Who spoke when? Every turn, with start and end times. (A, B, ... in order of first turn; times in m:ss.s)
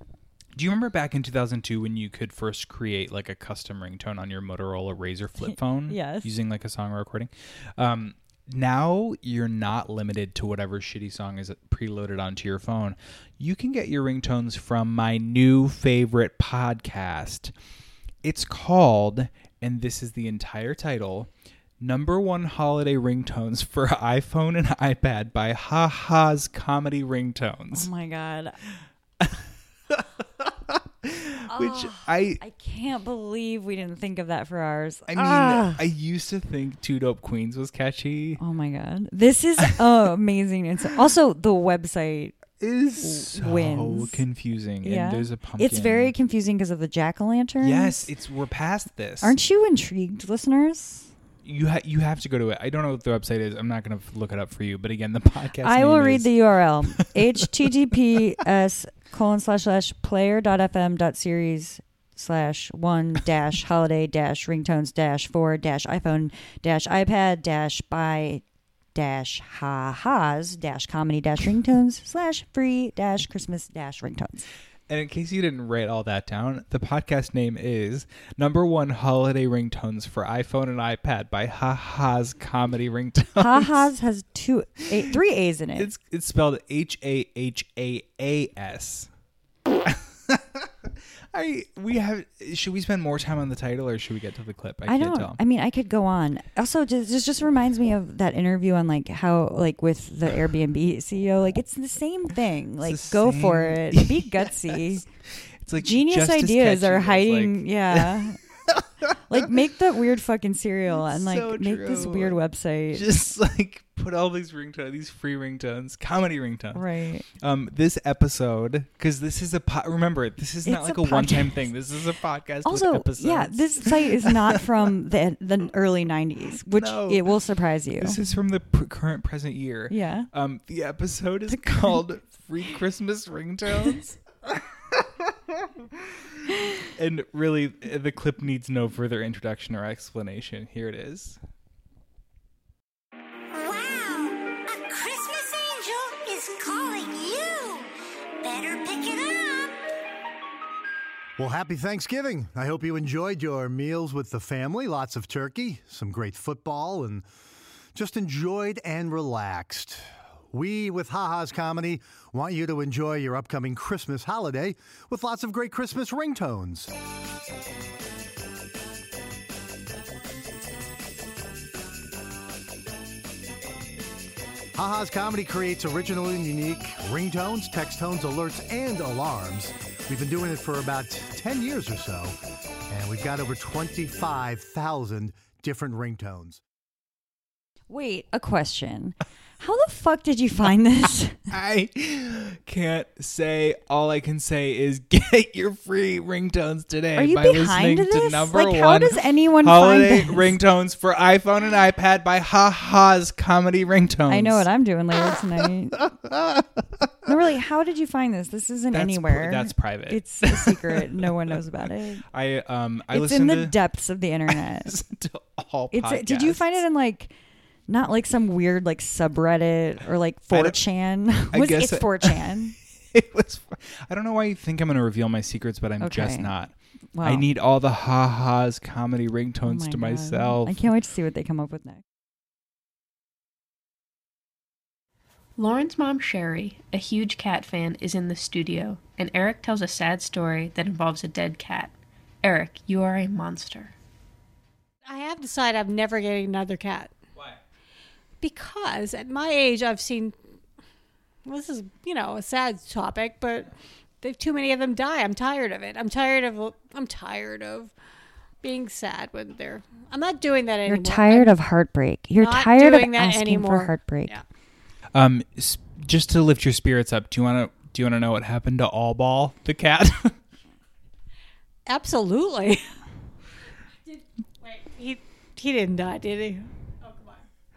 0:00.6-0:17.5 A
0:05.5-0:06.3 B
0:18.2-0:21.3 A
0:21.8-0:27.9 A
0:27.7-0:28.6 B
0:29.9-0:32.4 A
0:31.5-0:35.8 B
0:35.1-0:38.4 A
0:38.4-0:44.2 B
0:42.6-0:46.1 A
0:44.8-0:48.1 B
0:47.6-0:49.4 A
0:49.2-0:51.1 B
0:51.4-0:56.3 A
0:55.6-1:08.4 B
1:09.0-1:14.5 B
1:14.9-1:23.9 A
1:23.4-1:25.9 B
1:25.8-1:29.1 A
1:29.9-1:30.7 A
1:31.3-1:35.4 A
1:34.9-1:45.0 B
1:42.8-1:45.0 A
1:45.6-1:49.1 A
1:45.8-1:48.4 B
1:49.3-1:53.1 B
1:50.9-1:52.4 A
1:52.9-2:04.6 A
1:56.8-1:57.3 B
2:00.7-2:01.7 B
2:02.6-2:08.2 B
2:06.7-2:07.3 A
2:08.0-2:15.0 A
2:09.9-2:10.3 B
2:11.5-2:12.0 B
2:17.0-2:21.4 A
2:23.5-2:29.8 C
2:31.4-2:37.3 D
2:38.0-2:46.9 D
2:54.8-3:02.4 D
3:02.9-3:06.6 D
3:07.9-3:11.4 B
3:11.5-3:24.7 A
3:17.2-3:20.5 B
3:24.3-3:26.1 B
3:26.2-3:26.6 A
3:27.3-3:32.2 B
3:28.9-3:31.6 A
3:32.3-3:33.8 A
3:33.1-3:35.0 B
3:34.5-3:36.6 A
3:35.9-3:37.3 B
3:37.9-3:42.8 B
3:40.5-3:40.8 A
3:41.5-3:42.6 A
3:43.1-3:46.7 A
3:46.0-3:46.5 B
3:47.2-3:47.4 B
3:47.2-3:50.8 A
3:49.7-3:52.0 B
3:55.6-4:03.9 E
4:05.1-4:07.1 F
4:08.4-4:10.4 F
4:11.5-4:13.7 F
4:14.2-4:17.9 F
4:18.6-4:21.5 F
4:20.9-4:24.4 B
4:22.4-4:24.4 F
4:25.2-4:30.3 A
4:31.9-4:32.9 F
4:34.1-4:37.4 F